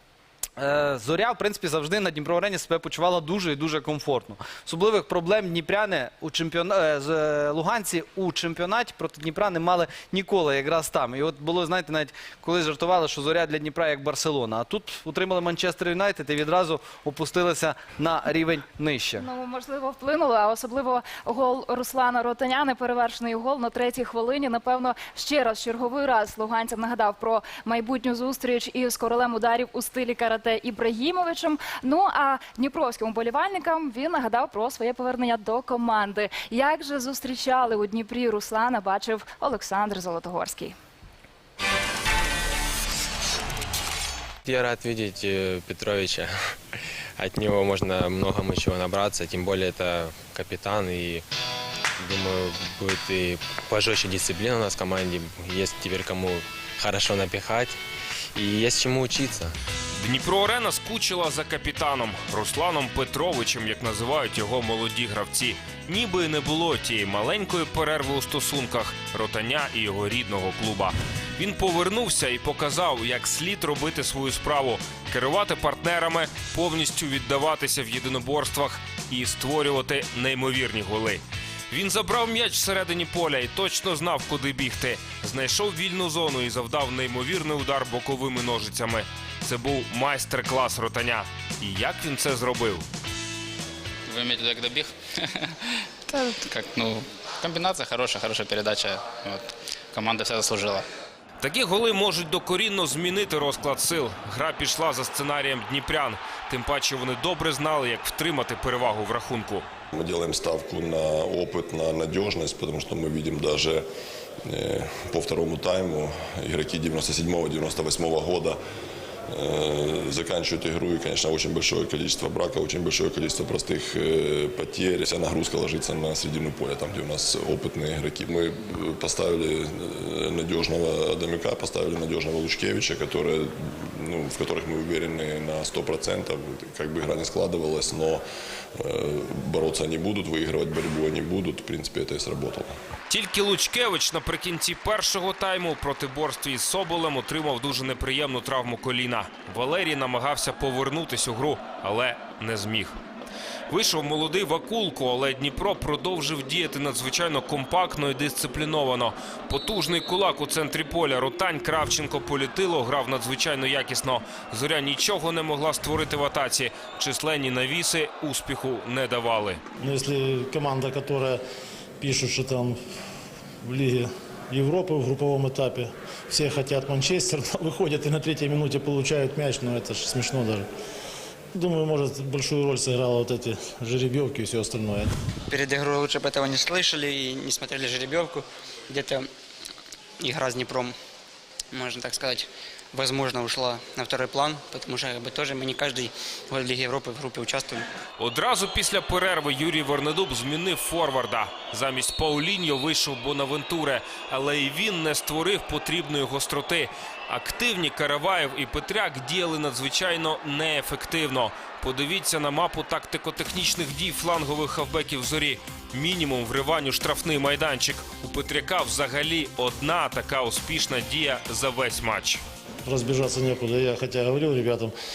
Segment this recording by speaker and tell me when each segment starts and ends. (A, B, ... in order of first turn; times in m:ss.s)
0:00.6-0:19.3 A
0:19.2-0:40.8 B
0:44.4-0:51.2 C
0:52.0-0:57.8 C
0:58.4-0:59.5 C
1:00.0-1:32.8 D
1:34.1-1:35.4 E
1:36.1-1:40.8 E
1:41.4-1:49.7 D
1:49.9-1:53.8 F
1:54.4-1:58.6 F
1:59.3-2:18.2 F
2:18.8-2:22.7 F
2:23.1-2:33.0 D
2:33.7-2:49.6 D
2:49.8-2:51.4 G
2:52.0-2:52.8 G
2:53.7-3:00.6 G
3:01.6-3:05.1 G
3:05.5-3:08.4 H
3:08.9-3:09.2 H
3:10.2-3:10.8 H
3:11.8-3:12.4 H
3:13.0-3:17.7 H
3:18.2-3:42.4 D
3:42.9-3:44.9 G